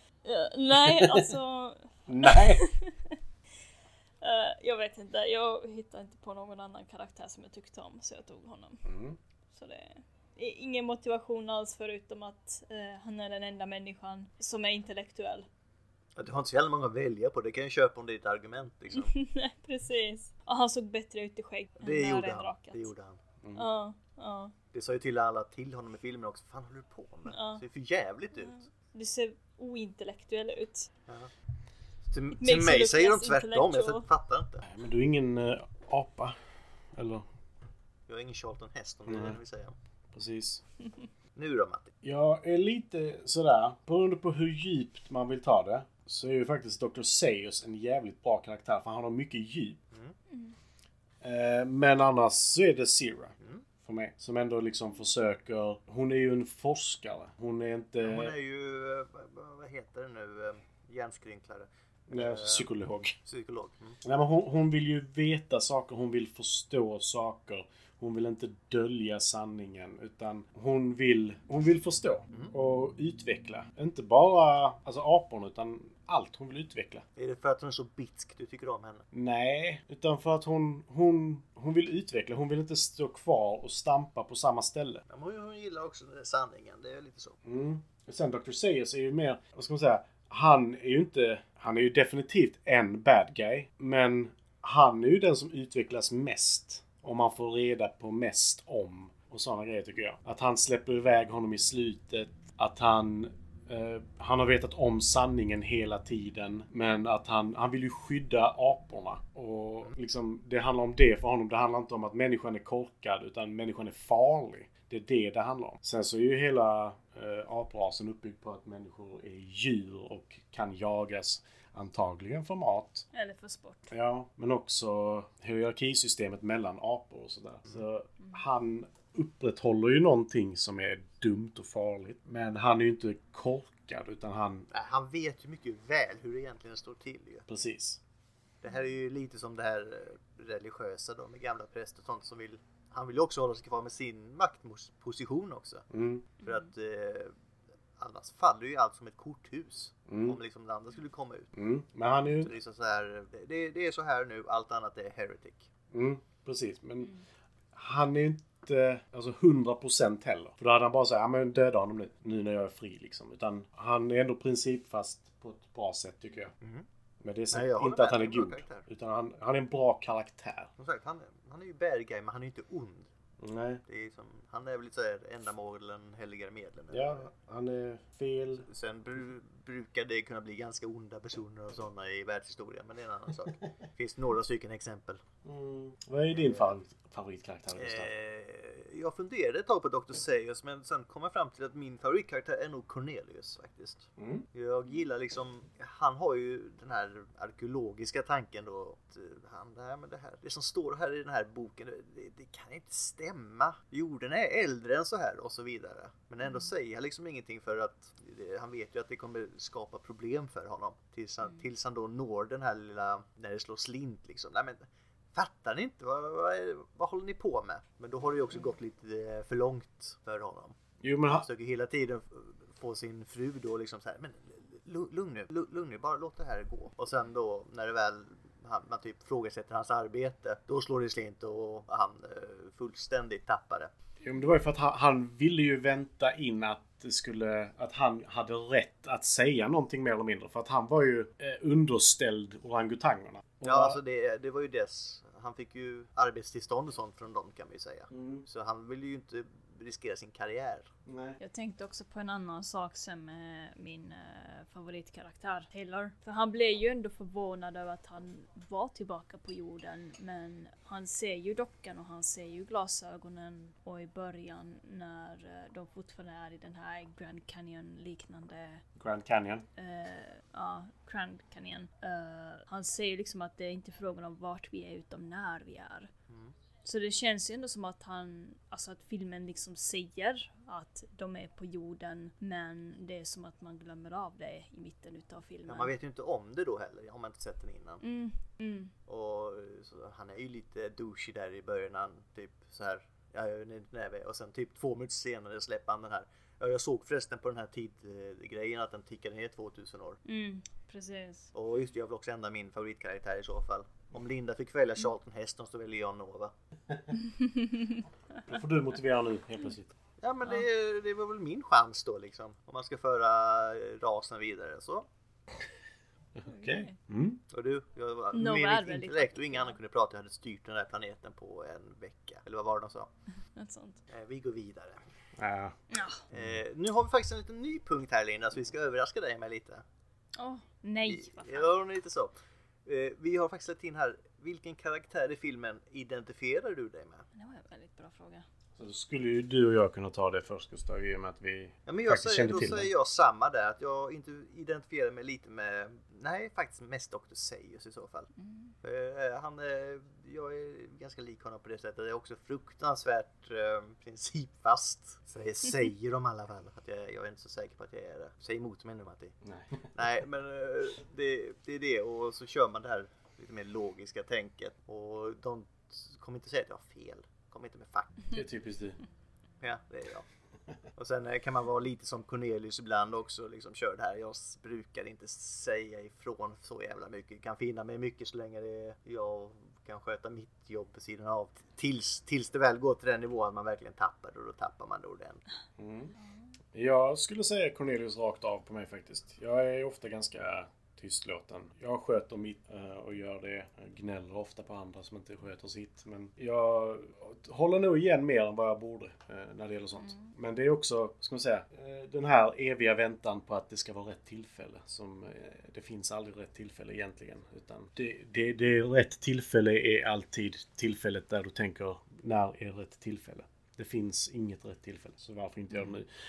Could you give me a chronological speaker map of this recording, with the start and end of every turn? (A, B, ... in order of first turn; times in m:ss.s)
0:00.2-0:03.2 A
0:00.7-0:01.3 B
0:02.1-0:02.6 B
0:04.2-0:08.8 A
0:08.8-0:09.2 B
0:09.5-0:15.5 A
0:16.2-0:19.1 C
0:18.9-0:22.9 A
0:21.8-0:23.2 C
0:23.4-0:23.7 B
0:23.5-0:24.5 A
0:24.7-0:28.6 C
0:27.3-0:27.6 A
0:28.4-0:30.9 A
0:32.1-0:34.6 C
0:32.4-0:34.1 A
0:34.6-0:36.4 B
0:36.9-0:37.2 B
0:38.1-0:39.7 C
0:39.1-0:39.4 B
0:40.1-0:40.6 B
0:41.3-0:41.9 C
0:42.0-0:49.8 B
0:50.3-0:50.5 A
0:51.2-0:58.3 B
0:53.4-0:53.6 C
0:58.0-1:02.7 C
1:02.1-1:03.2 B
1:03.2-1:04.0 C
1:04.0-1:17.0 B
1:17.2-1:19.0 C
1:19.1-1:25.0 B
1:25.1-1:27.4 C
1:27.4-2:03.0 B
2:03.1-2:03.9 A
2:03.9-2:14.7 B
2:14.7-2:17.4 C
2:17.5-2:18.0 B
2:18.6-2:25.8 C
2:25.9-2:26.2 B
2:26.4-2:26.7 A
2:26.4-2:27.3 C
2:28.0-2:31.5 C
2:30.1-2:30.4 B
2:31.6-2:32.5 B
2:32.4-2:35.7 C
2:35.9-2:37.1 B
2:37.7-2:46.5 B
2:46.6-2:46.8 C
2:47.2-2:50.7 B
2:47.5-2:48.8 C
2:50.8-2:53.1 C
2:53.4-2:53.8 B
2:53.9-2:57.3 C
2:56.9-2:58.6 B
2:58.6-3:05.2 C
3:05.4-3:08.1 B
3:06.3-3:06.8 C
3:07.8-3:40.8 C
3:14.2-3:14.4 B
3:41.0-3:41.5 B
3:41.3-3:53.9 C
3:54.2-4:04.0 B
4:03.6-4:10.9 C
4:08.1-4:08.4 B
4:11.0-4:11.4 B
4:11.4-4:28.8 A
4:29.0-4:29.6 B
4:29.8-4:36.1 A
4:36.3-4:36.5 C
4:36.8-4:45.9 A
4:45.7-4:48.0 C
4:48.0-4:48.9 A
4:49.1-5:00.2 C
5:00.2-5:01.5 A
5:01.5-5:06.5 C
5:07.2-5:08.0 A
5:08.5-5:09.9 B
5:10.2-5:15.1 C
5:16.4-5:17.4 B
5:16.5-5:17.0 A
5:17.5-5:23.1 C
5:18.3-5:19.8 A
5:23.5-5:24.0 A
5:24.1-5:25.0 C
5:25.4-5:25.8 B
5:25.9-5:26.2 A
5:26.3-5:29.8 C
5:30.4-5:31.7 A
5:31.0-5:32.3 C
5:32.8-5:37.2 C
5:37.3-5:38.4 A
5:38.8-5:42.9 B
5:41.8-5:48.3 C
5:48.4-5:48.7 A
5:48.8-5:59.3 C
5:59.4-5:59.9 B
5:59.9-6:08.3 C
6:08.3-6:09.0 B
6:09.6-6:10.2 C
6:11.0-6:25.4 C
6:25.8-6:26.1 B
6:26.2-6:26.4 A
6:26.7-6:56.1 B
6:40.0-6:40.3 A